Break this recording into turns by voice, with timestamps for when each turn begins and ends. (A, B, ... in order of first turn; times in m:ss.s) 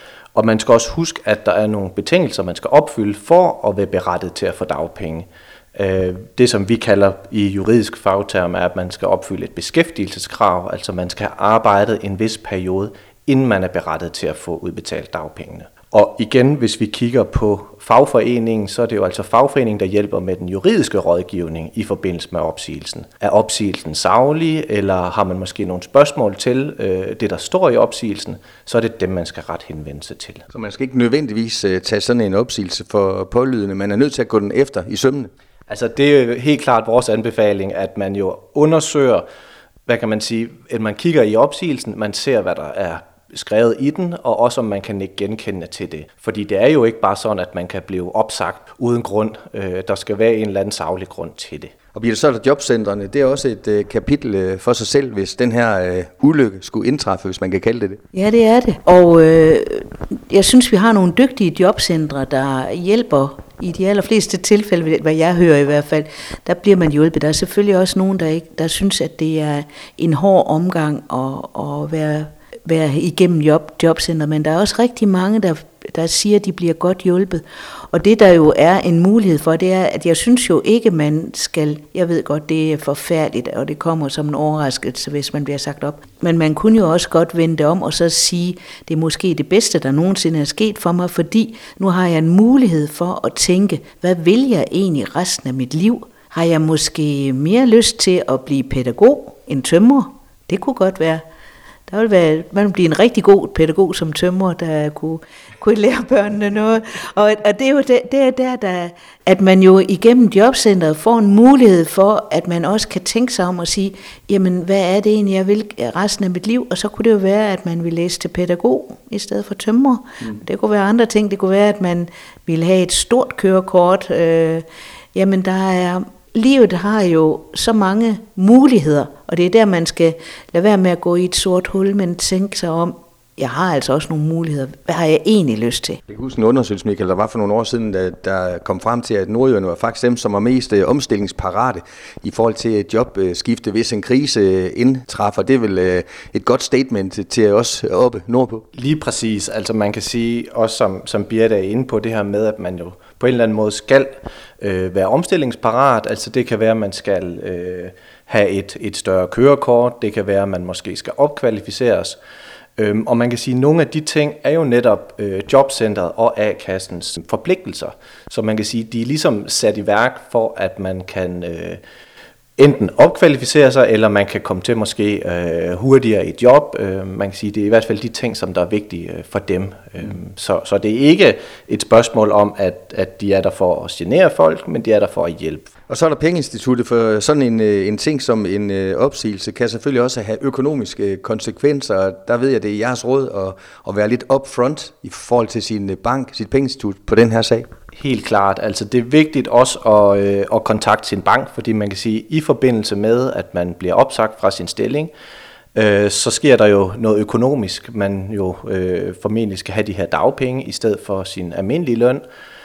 0:00.3-0:30.4 A
0:30.5-0:35.3 B
0:35.7-0:39.2 A
0:39.9-0:51.7 A
0:51.9-0:58.0 B
0:58.1-1:41.2 C
1:41.9-2:16.0 C
2:16.1-2:28.6 B
2:28.7-2:42.2 A
2:42.8-2:51.8 A
2:52.6-3:05.7 A
3:05.9-3:17.7 B
3:17.9-3:25.1 A
3:25.7-3:32.2 A